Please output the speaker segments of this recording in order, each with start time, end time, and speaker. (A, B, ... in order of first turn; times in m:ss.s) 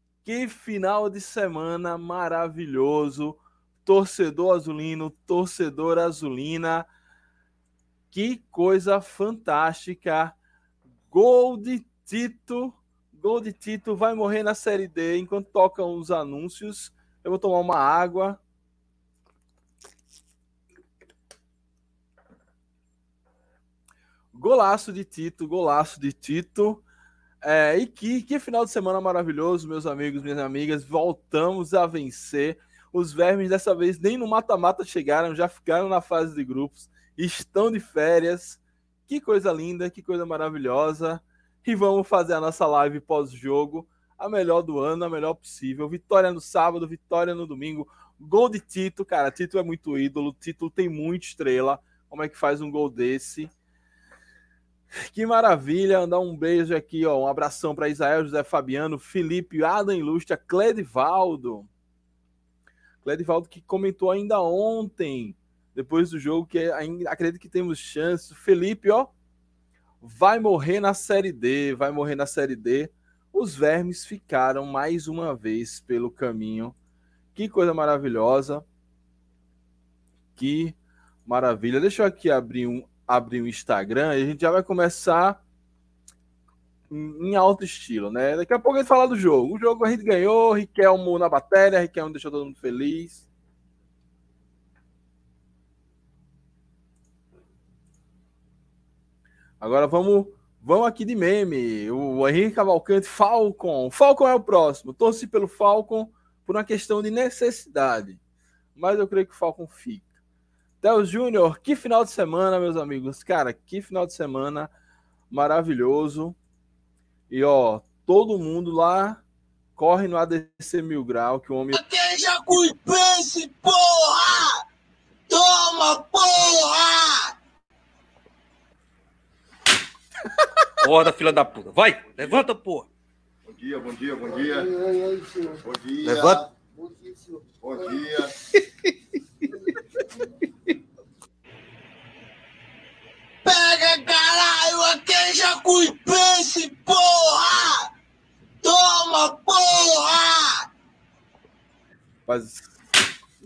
0:00.2-0:06.9 A
0:08.1-0:10.4 A
0:11.1-0:18.4 A
0:24.3-0:26.8 A
0:27.4-0:53.5 A
0:55.0-1:01.7 A
1:03.0-1:09.1 A
1:10.0-1:16.8 A
1:17.4-1:18.6 A
1:20.4-1:25.4 A
1:26.9-1:33.3 A
1:39.6-1:48.2 A
1:48.8-1:50.1 A
1:50.8-1:54.7 A
1:55.3-1:56.4 A
1:57.3-1:59.2 A
1:59.8-2:01.8 A
2:01.7-2:04.6 B
2:05.3-2:07.3 B
2:10.8-2:12.9 C
2:13.5-2:16.5 D
2:16.0-2:16.4 C
2:17.6-2:18.3 D
2:23.4-2:27.9 B
2:28.6-2:30.7 B
2:32.3-2:32.7 A